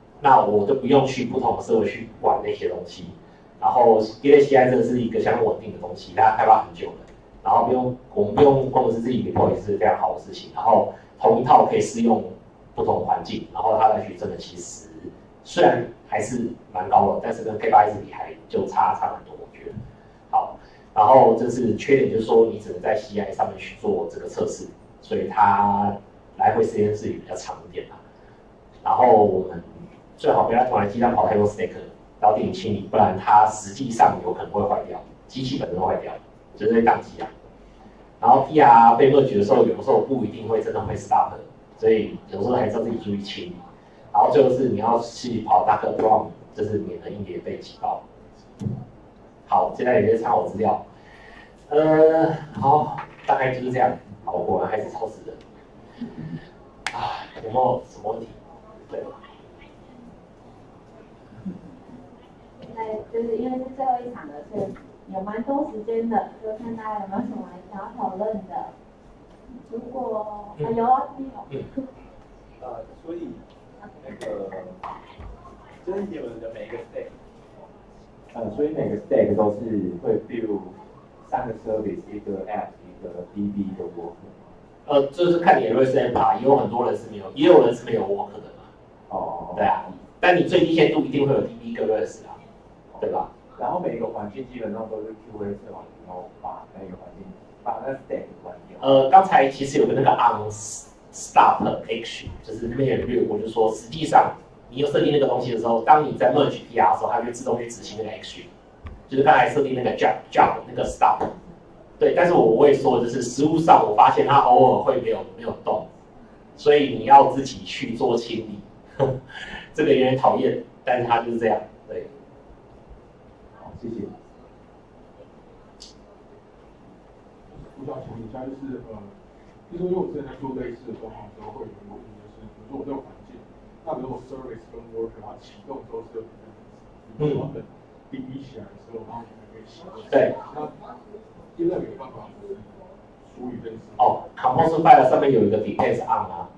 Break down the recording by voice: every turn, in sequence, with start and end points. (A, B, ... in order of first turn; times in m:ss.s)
0:00.2-0:19.8 A
0:20.3-0:28.0 A
0:28.8-0:37.3 A
0:38.2-0:43.6 A
0:44.1-0:48.0 A
0:49.5-0:50.8 A
0:51.7-0:55.4 A
0:56.9-0:58.4 A
0:58.9-0:59.2 A
1:02.6-1:08.7 B
1:09.7-1:11.8 B
1:12.6-1:14.8 C
1:15.8-1:17.1 C
1:18.3-1:24.4 C
1:24.8-1:28.7 A
1:29.1-1:29.9 C
1:29.5-1:32.4 A
1:33.0-1:33.3 A
1:33.6-1:39.0 C
1:38.8-1:48.5 A
1:49.1-1:51.4 A
1:52.0-1:55.9 A
1:56.6-2:02.1 A
2:03.6-2:04.1 C
2:07.5-2:09.1 D
2:09.7-2:20.8 D
2:17.2-2:17.4 A
2:21.5-2:24.1 D
2:24.0-2:26.5 A